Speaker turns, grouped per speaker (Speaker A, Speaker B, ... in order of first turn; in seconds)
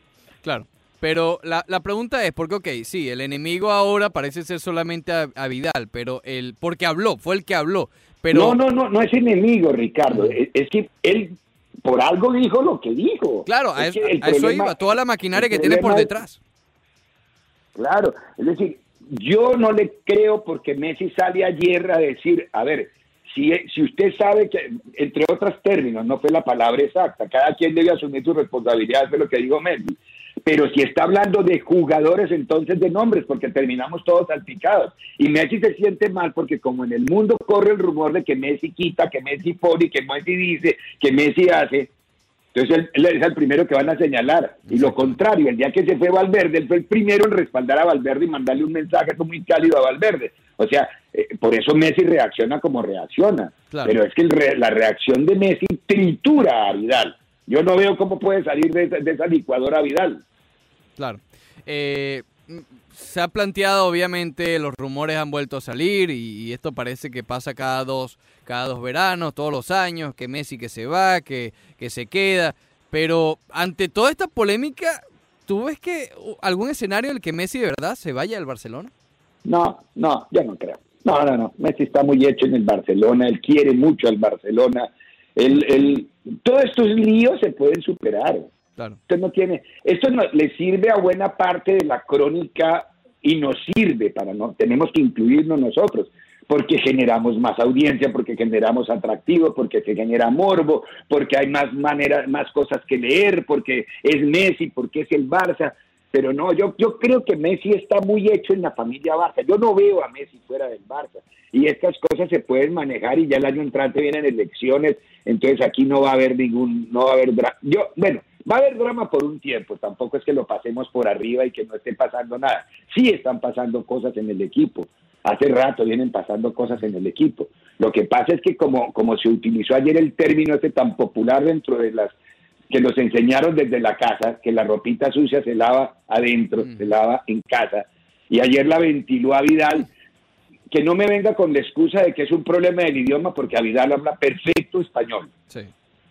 Speaker A: 0.4-8.6, 10.1-10.4, 13.4-16.4, 44.7-45.2, 53.7-54.0, 61.0-78.9, 136.6-136.9
Speaker B: 8.3-16.1, 17.7-41.9, 42.5-60.2, 79.4-88.5, 89.1-132.1, 132.7-139.9, 140.7-145.3